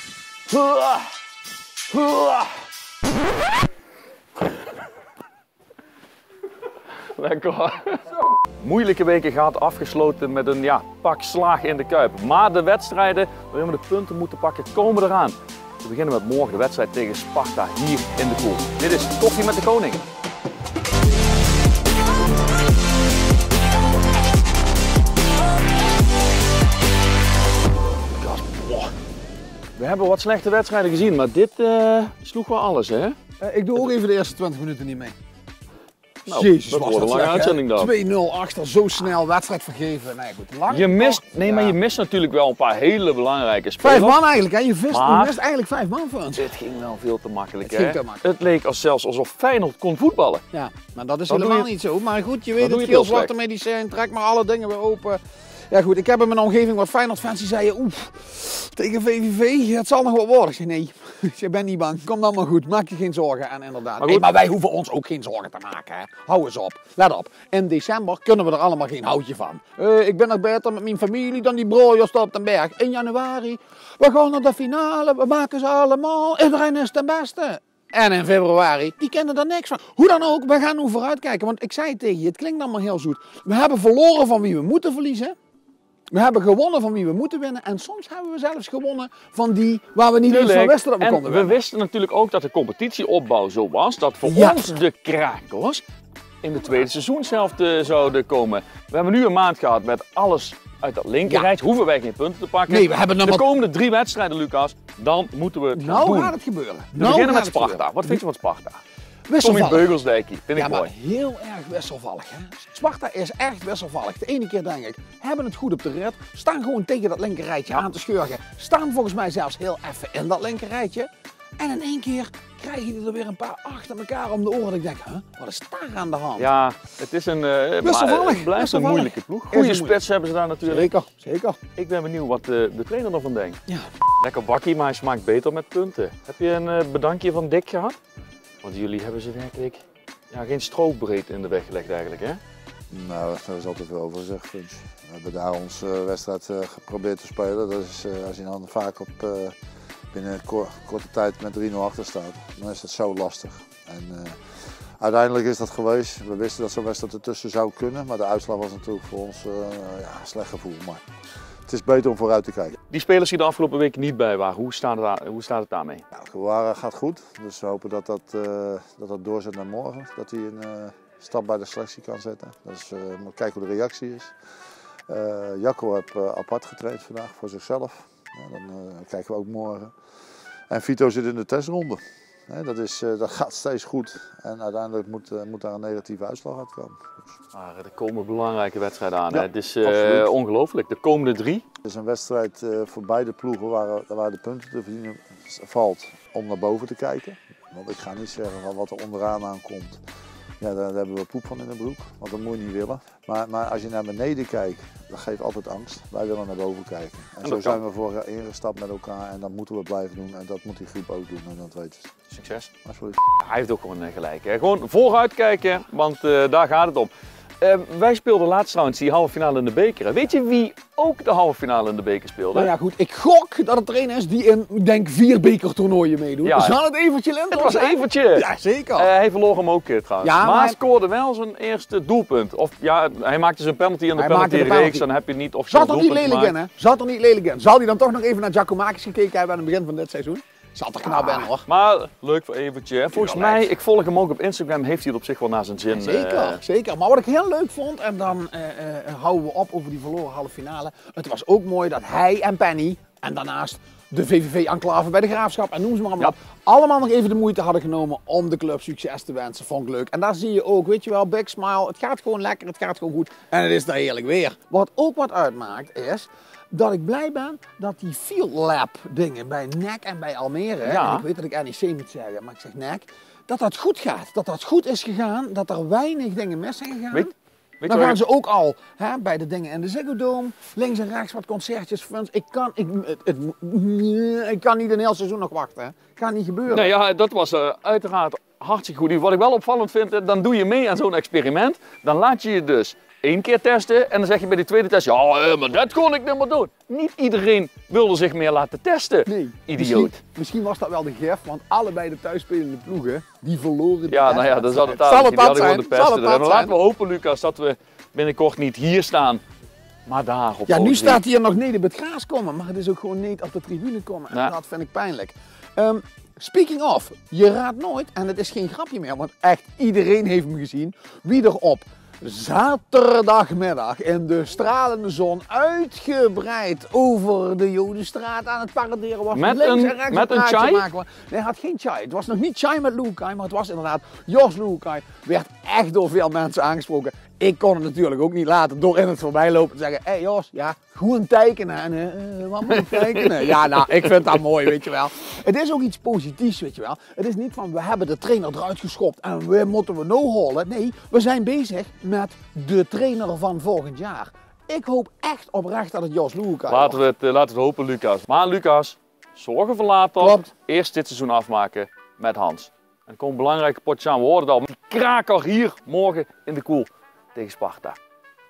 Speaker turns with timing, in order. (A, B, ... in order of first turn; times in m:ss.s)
0:00.5-0:01.1 A
0:01.9-0:02.6 A
0:07.1-0:20.0 A
0:28.2-0:28.9 A
0:29.8-0:33.2 A
0:33.4-0:35.1 B
0:36.2-0:37.9 A
0:36.3-0:41.8 B
0:40.7-0:44.2 A
0:43.8-0:46.5 B
0:44.9-0:45.4 A
0:46.4-0:50.4 A
0:47.6-0:48.2 B
0:50.5-1:25.3 B
0:51.3-0:51.7 A
0:52.6-0:53.3 A
1:04.0-1:04.3 A
1:26.1-1:31.6 B
1:30.2-1:35.8 A
1:34.2-1:34.8 B
1:36.4-1:46.3 A
1:41.2-1:41.5 B
1:42.7-1:43.4 B
1:45.7-1:48.2 B
1:46.9-1:48.8 A
1:49.3-1:49.9 B
1:49.4-1:50.9 A
1:50.5-2:06.5 B
2:06.4-2:10.9 A
2:07.8-2:10.0 B
2:10.6-2:11.6 B
2:11.7-2:13.6 A
2:14.2-2:18.0 A
2:18.6-2:22.4 A
2:22.9-2:29.6 C
2:30.1-2:41.0 C
2:41.7-2:42.8 C
2:42.9-2:46.0 A
2:46.1-2:54.3 C
2:55.1-2:59.9 C
3:00.7-3:07.3 C
3:07.5-3:11.6 A
3:09.3-3:10.3 C
3:11.8-3:20.0 C
3:20.6-3:32.1 C
3:27.4-3:27.8 A
3:32.3-3:32.7 A
3:32.8-3:33.2 C
3:33.3-3:42.7 A
3:42.5-3:49.1 B
3:46.4-3:46.8 A
3:47.5-3:56.6 A
3:50.2-3:50.8 B
3:54.1-3:55.0 B
3:55.7-4:01.6 B
4:01.0-4:06.6 A
4:03.1-4:03.7 B
4:05.9-4:46.9 B
4:30.8-4:31.2 A
4:37.8-4:38.2 A
4:46.7-5:00.2 A
4:59.2-5:06.7 B
5:04.1-5:09.4 A
5:10.0-5:11.2 A
5:10.7-5:57.0 B
5:29.3-5:30.9 A
5:42.7-5:44.3 A
5:56.7-6:08.0 A
6:00.2-6:00.5 B